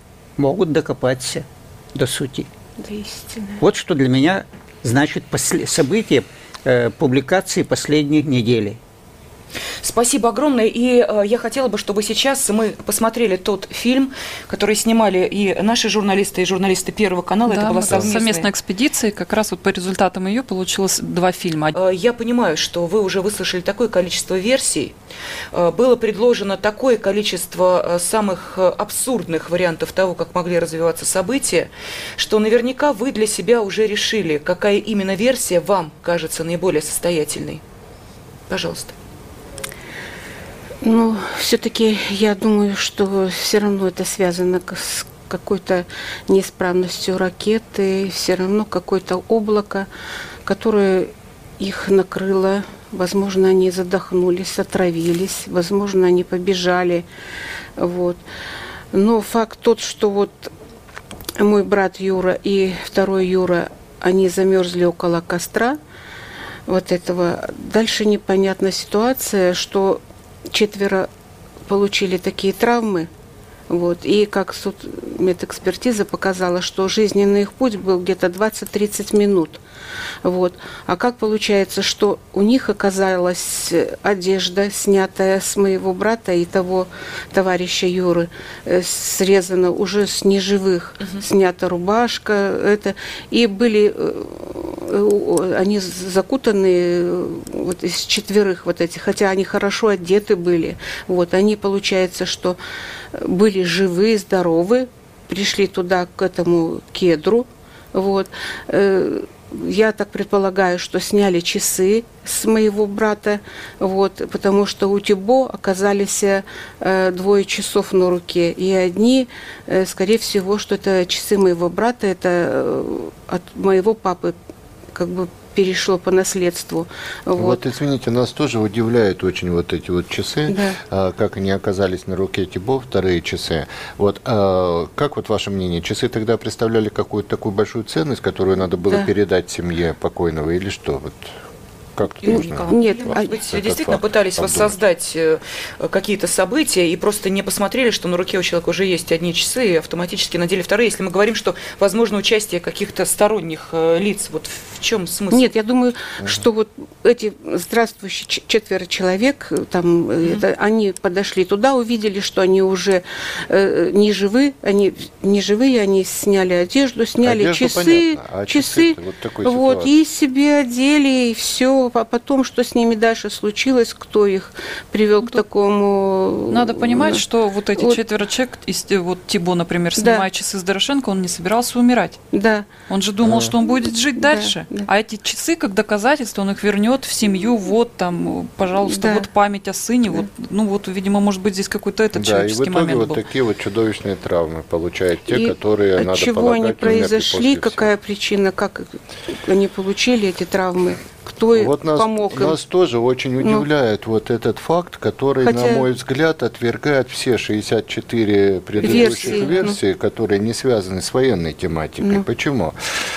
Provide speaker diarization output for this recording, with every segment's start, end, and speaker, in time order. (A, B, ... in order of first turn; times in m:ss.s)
0:00.4-0:02.5 A
0:02.8-0:03.6 B
0:03.6-0:08.8 A
0:09.8-0:18.5 C
0:17.5-0:21.8 D
0:21.8-0:24.9 C
0:25.5-0:37.6 C
0:38.5-0:39.0 C
0:40.8-0:49.9 B
0:50.4-0:57.1 B
0:57.8-0:58.2 B
0:58.9-1:00.5 B
1:01.4-1:05.8 B
1:06.7-1:11.1 B
1:11.7-1:13.1 B
1:13.7-1:19.6 B
1:20.2-1:42.6 B
1:43.1-2:04.4 B
2:04.9-2:07.6 B
2:07.4-2:21.3 E
2:10.5-2:10.8 B
2:22.0-2:24.7 E
2:22.2-2:23.4 B
2:22.7-2:35.5 C
2:35.3-2:57.2 B
2:47.2-2:49.9 E
2:56.5-3:02.2 D
2:57.8-2:58.0 B
3:00.0-3:00.3 B
3:02.3-3:02.7 B
3:02.9-3:13.2 D
3:03.2-3:03.5 E
3:03.7-3:04.9 B
3:08.8-3:09.3 B
3:12.1-3:17.9 E
3:15.3-3:22.6 B
3:21.5-3:32.8 E
3:25.4-3:25.8 B
3:28.8-3:29.8 B